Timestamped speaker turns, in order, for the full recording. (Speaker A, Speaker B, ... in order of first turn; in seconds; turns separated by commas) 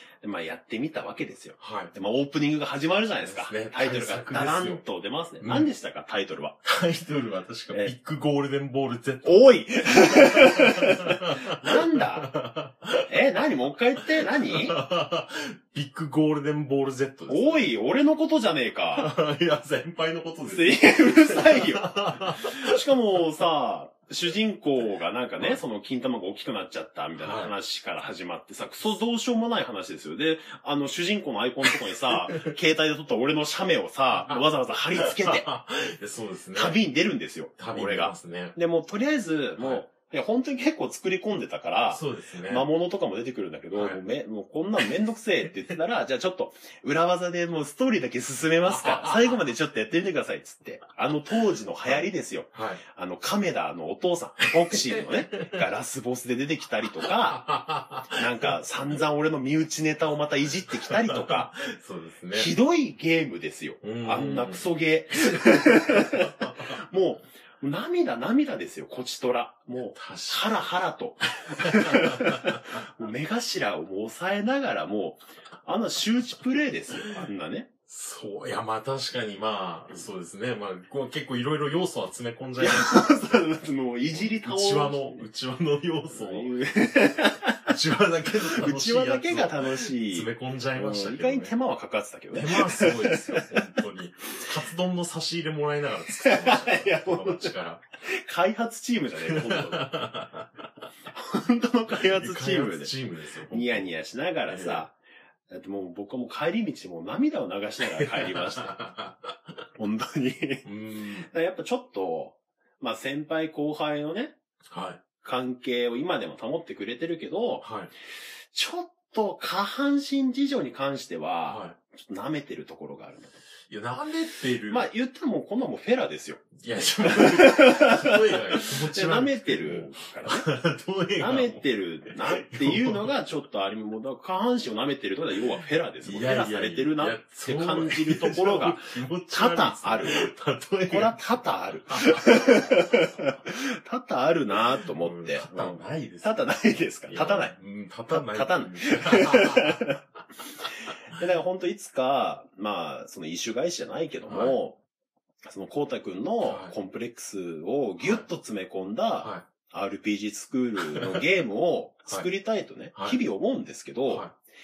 Speaker A: 0.2-6.6, Speaker B: 1.6-1.9, Speaker B: 3.2-4.8, Speaker B: 5.4-5.7, Speaker B: 6.6-13.1, Speaker A: 9.2-12.3, Speaker A: 13.1-14.8, Speaker B: 14.0-17.7, Speaker A: 17.3-19.1, Speaker B: 18.9-22.9, Speaker A: 20.4-35.5, Speaker B: 27.2-27.5, Speaker B: 31.6-32.5, Speaker B: 34.2-36.8, Speaker A: 36.5-57.5, Speaker B: 37.6-38.5, Speaker B: 39.6-39.8, Speaker B: 41.9-42.7, Speaker B: 43.7-44.0, Speaker B: 48.6-49.5, Speaker B: 51.8-52.8, Speaker B: 54.7-55.6, Speaker B: 57.0-58.6, Speaker A: 58.1-61.6, Speaker B: 60.7-62.5, Speaker A: 62.3-77.7, Speaker B: 63.8-64.7, Speaker B: 65.3-66.5, Speaker B: 69.9-70.7, Speaker B: 71.6-72.5, Speaker B: 77.9-83.5, Speaker A: 82.6-85.2, Speaker B: 84.1-87.0, Speaker A: 86.1-87.7, Speaker B: 87.7-91.5, Speaker A: 88.5-93.5, Speaker B: 92.3-97.8, Speaker A: 96.2-97.5, Speaker A: 98.0-99.9, Speaker B: 99.3-100.7, Speaker A: 101.1-102.9, Speaker B: 101.9-103.9, Speaker A: 103.5-104.9, Speaker B: 104.5-104.9, Speaker A: 105.5-108.8, Speaker B: 107.8-109.4, Speaker A: 109.8-110.7, Speaker B: 110.6-111.3, Speaker A: 111.3-114.3, Speaker B: 114.7-115.0, Speaker A: 115.2-117.7, Speaker B: 117.6-117.9, Speaker A: 118.5-123.4, Speaker B: 121.5-121.8, Speaker B: 123.7-124.9, Speaker A: 124.7-130.5, Speaker B: 126.6-133.1, Speaker A: 131.2-140.3, Speaker B: 136.0-143.3, Speaker A: 140.9-147.5, Speaker B: 144.5-146.4, Speaker B: 147.1-149.8, Speaker A: 148.1-150.0, Speaker A: 151.1-154.8, Speaker B: 154.3-154.6, Speaker A: 155.4-164.3, Speaker B: 156.4-156.7, Speaker B: 158.0-158.3, Speaker B: 159.2-159.5, Speaker B: 160.8-161.3, Speaker B: 162.9-163.2, Speaker B: 164.1-164.3